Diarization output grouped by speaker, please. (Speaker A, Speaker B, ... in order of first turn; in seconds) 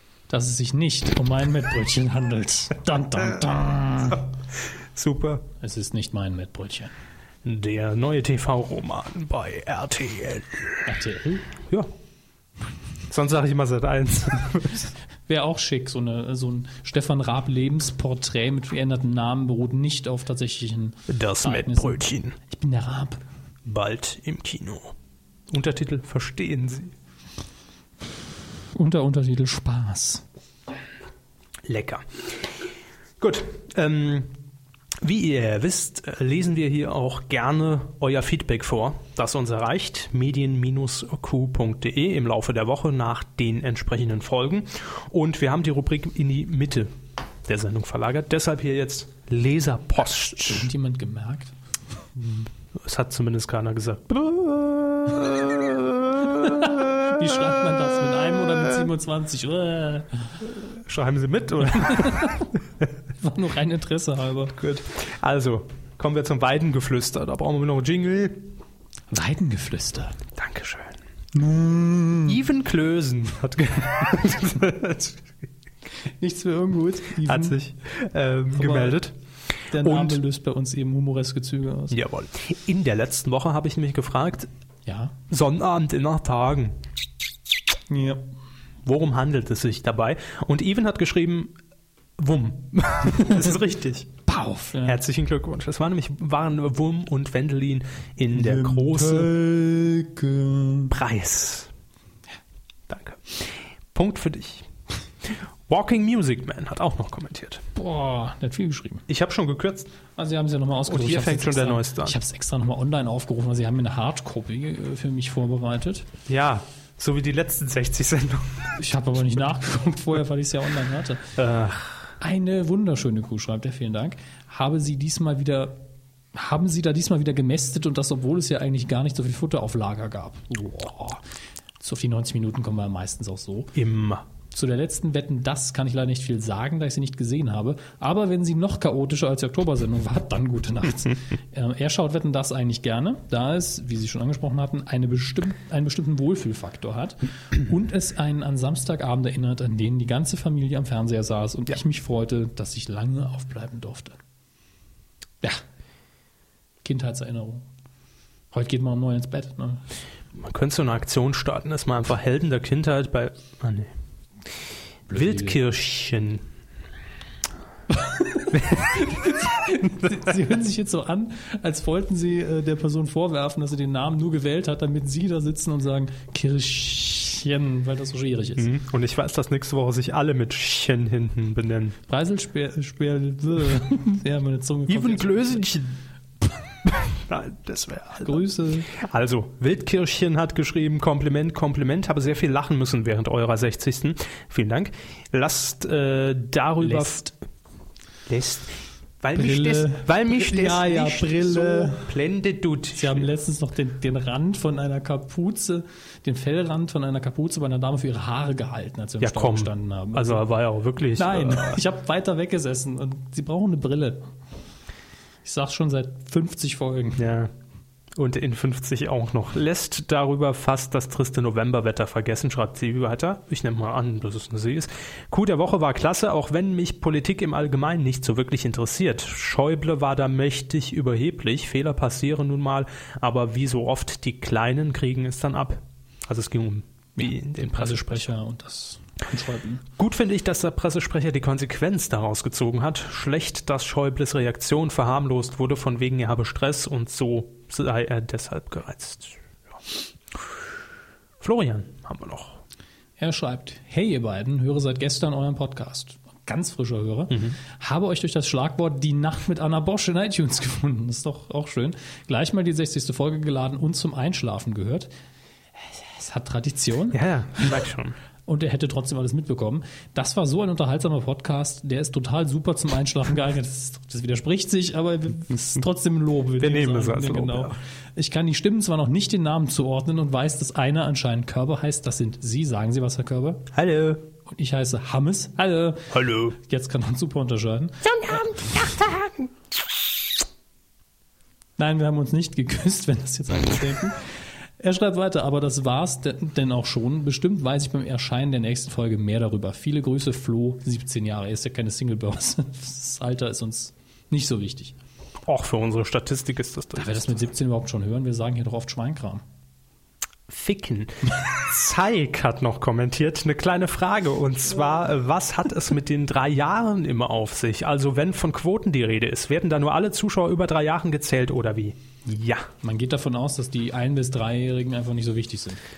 Speaker A: 0.3-4.2, 5.6-6.9, 10.8-11.5, 15.3-23.2, 28.7-30.2, 50.4-51.5, 56.4-60.3, 61.9-62.3, 63.2-64.5, 69.1-70.2, 71.3-72.4, 76.2-77.6, 78.5-79.0, 79.7-81.9, 84.8-85.1, 87.9-88.2, 94.2-95.0, 98.3-100.9, 107.7-109.0, 110.2-116.0, 118.8-121.2, 122.2-125.8, 126.3-131.2, 131.8-133.7, 134.5-154.2, 156.8-157.7, 158.5-159.8, 165.1-165.6, 167.9-178.7, 182.1-185.7, 188.2-188.9, 196.8-197.2, 199.3-202.1, 202.9-210.4, 211.2-214.2, 215.4-217.2, 237.2-239.8, 253.2-265.1, 265.9-267.8, 268.5-283.6, 284.5-288.6, 291.8-294.2, 294.8-304.9, 306.9-309.4, 322.8-325.8
Speaker B: 4.9-5.4, 7.4-10.8, 13.1-14.9, 21.1-22.4, 23.6-24.9, 25.5-26.9, 31.6-32.2, 33.2-34.3, 35.0-46.9, 47.4-50.7, 52.7-56.3, 60.6-62.6, 64.5-68.5, 70.3-71.0, 72.2-75.5, 77.2-79.1, 79.8-80.2, 81.9-84.5, 85.3-86.8, 88.8-91.5, 92.2-94.1, 94.8-99.3, 100.9-101.7, 102.9-104.7, 105.2-107.6, 109.1-109.9, 110.8-112.2, 116.3-118.7, 121.3-122.0, 133.7-134.2, 160.3-163.9, 165.1-166.4, 178.6-181.9, 184.9-185.9, 186.8-197.3, 198.3-203.3, 209.2-211.8, 217.2-217.5, 218.1-238.3, 240.0-249.4, 251.4-252.6, 257.3-257.6, 267.1-268.1, 276.6-277.8, 283.7-284.2, 286.1-286.6, 288.2-289.3, 305.4-307.4, 310.5-322.7